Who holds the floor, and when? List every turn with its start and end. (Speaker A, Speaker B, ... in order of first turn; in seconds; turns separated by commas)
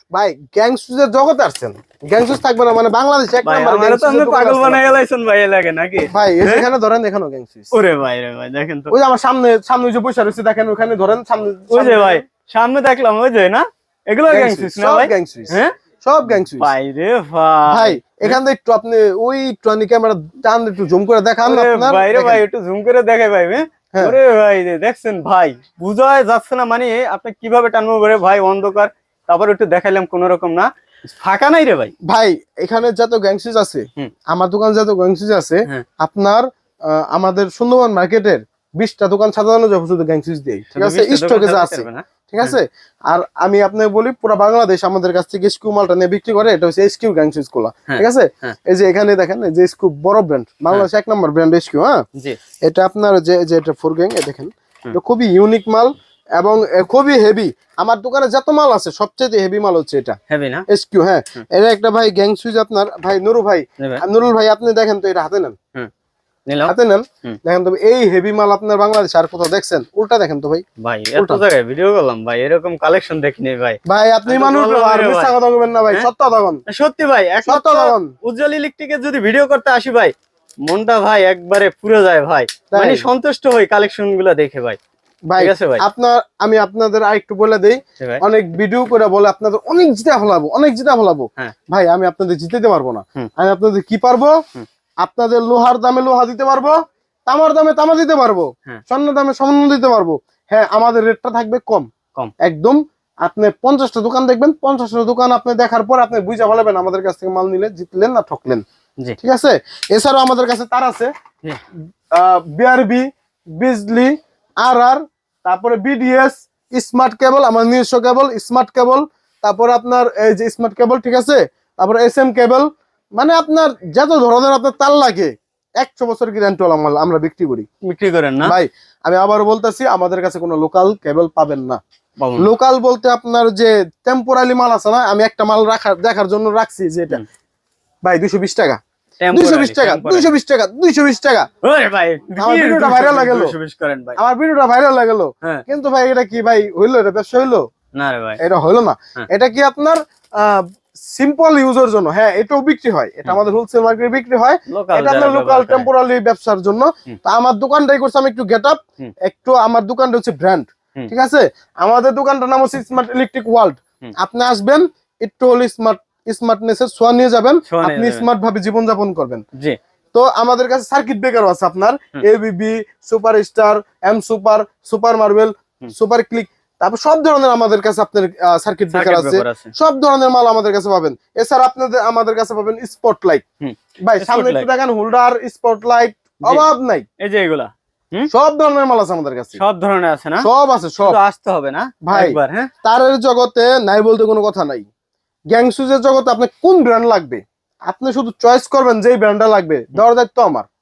Speaker A: 0.1-5.0, Speaker B: 3.4-6.7, Speaker A: 6.1-7.7, Speaker B: 7.7-8.9, Speaker A: 8.9-12.2, Speaker B: 11.7-15.7, Speaker A: 14.3-16.7, Speaker B: 16.3-18.4, Speaker A: 17.7-22.4, Speaker B: 21.4-31.9, Speaker A: 32.0-52.0, Speaker B: 40.7-42.6, Speaker B: 47.9-48.5, Speaker A: 52.6-60.2, Speaker B: 60.3-60.7, Speaker A: 60.7-65.5, Speaker B: 66.5-66.7, Speaker A: 66.7-70.6, Speaker B: 70.8-75.3, Speaker A: 71.2-71.4, Speaker A: 73.8-76.6, Speaker B: 76.7-80.1, Speaker A: 77.4-78.1, Speaker B: 80.6-84.8, Speaker A: 82.7-83.0, Speaker A: 85.3-94.4, Speaker B: 85.4-85.8, Speaker A: 95.0-101.9, Speaker A: 102.4-108.6, Speaker A: 109.2-111.1, Speaker A: 112.1-127.7, Speaker B: 127.8-128.6, Speaker A: 128.4-131.8, Speaker B: 132.2-132.5, Speaker A: 132.4-137.2, Speaker A: 138.0-138.8, Speaker B: 139.2-140.3, Speaker A: 139.3-141.5, Speaker B: 141.6-144.2, Speaker A: 142.4-143.5, Speaker A: 144.2-147.6, Speaker B: 147.9-148.4, Speaker A: 148.4-169.4, Speaker B: 154.7-155.9, Speaker B: 167.7-168.2, Speaker A: 170.1-183.4, Speaker B: 178.9-179.7, Speaker B: 183.6-184.7, Speaker A: 184.0-187.0, Speaker B: 187.2-188.3, Speaker A: 188.3-189.6, Speaker B: 189.6-190.5, Speaker A: 190.4-191.2, Speaker B: 191.0-192.7, Speaker A: 192.0-194.9, Speaker A: 195.5-200.7